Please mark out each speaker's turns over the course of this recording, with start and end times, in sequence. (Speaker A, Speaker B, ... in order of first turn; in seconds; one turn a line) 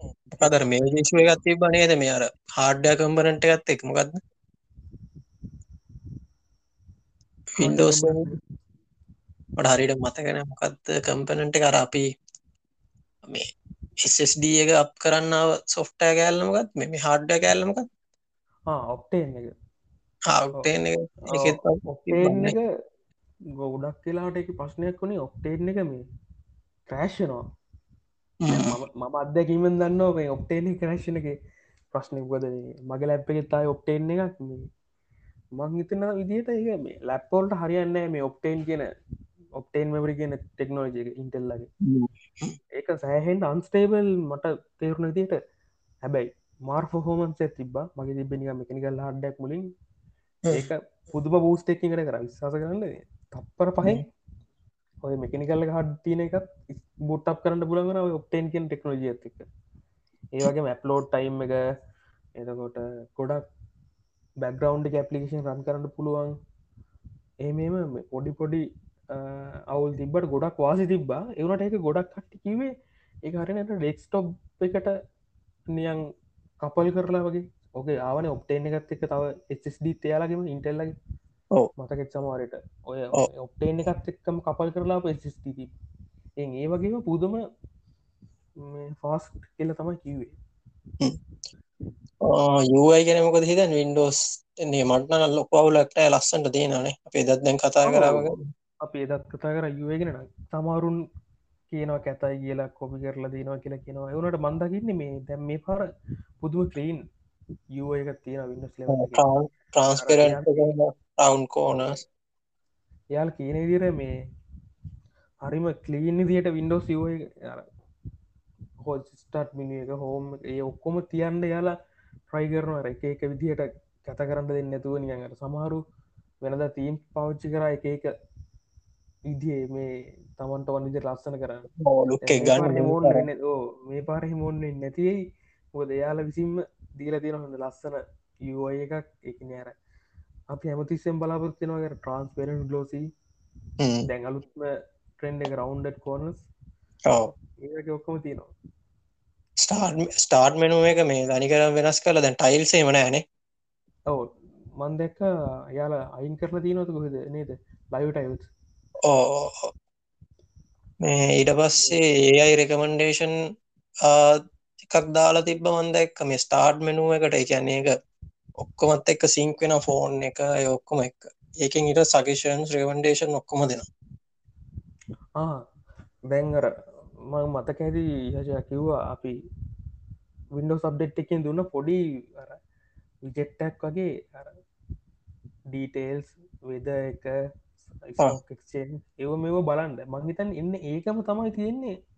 Speaker A: 0.3-1.4
Speaker B: 0.4-4.2
Speaker B: 7.6-8.2
Speaker A: 7.6-8.3
Speaker B: 9.6-12.1
Speaker B: 14.0-17.8
Speaker A: 18.7-19.5
Speaker B: 20.3-22.5
Speaker A: 21.3-22.6
Speaker A: 23.6-26.0
Speaker A: 26.9-27.4
Speaker B: 28.4-28.7
Speaker A: 28.5-31.3
Speaker A: 31.9-34.7
Speaker A: 35.5-38.8
Speaker A: 39.6-41.7
Speaker B: 41.8-42.6
Speaker A: 42.7-45.4
Speaker A: 46.0-49.6
Speaker A: 50.5-54.0
Speaker A: 55.0-59.4
Speaker A: 60.3-61.6
Speaker A: 62.4-63.4
Speaker A: 64.4-66.3
Speaker A: 67.4-72.7
Speaker A: 73.2-74.9
Speaker A: 75.7-76.0
Speaker A: 76.6-80.9
Speaker A: 81.8-85.7
Speaker A: 86.4-87.4
Speaker A: 88.6-90.3
Speaker B: 92.2-98.4
Speaker A: 97.9-98.3
Speaker A: 98.8-101.0
Speaker A: 101.7-105.8
Speaker A: 106.4-107.0
Speaker A: 107.8-109.2
Speaker B: 108.9-112.0
Speaker A: 110.0-110.7
Speaker A: 111.7-112.0
Speaker A: 113.1-114.1
Speaker A: 115.4-117.7
Speaker A: 118.8-121.7
Speaker A: 122.3-125.8
Speaker A: 126.4-128.1
Speaker A: 129.3-131.7
Speaker B: 131.8-133.2
Speaker A: 132.2-135.2
Speaker A: 135.7-139.7
Speaker A: 140.5-143.1
Speaker A: 144.1-144.7
Speaker A: 145.2-146.5
Speaker B: 147.1-147.3
Speaker A: 147.6-148.5
Speaker B: 149.6-153.2
Speaker A: 154.1-158.5
Speaker B: 159.0-159.7
Speaker B: 161.0-163.3
Speaker B: 164.0-167.9
Speaker B: 168.6-173.9
Speaker A: 175.4-175.6
Speaker A: 176.3-176.7
Speaker A: 177.3-179.3
Speaker A: 180.5-182.6
Speaker A: 183.2-184.5
Speaker A: 185.7-187.3
Speaker A: 188.0-191.9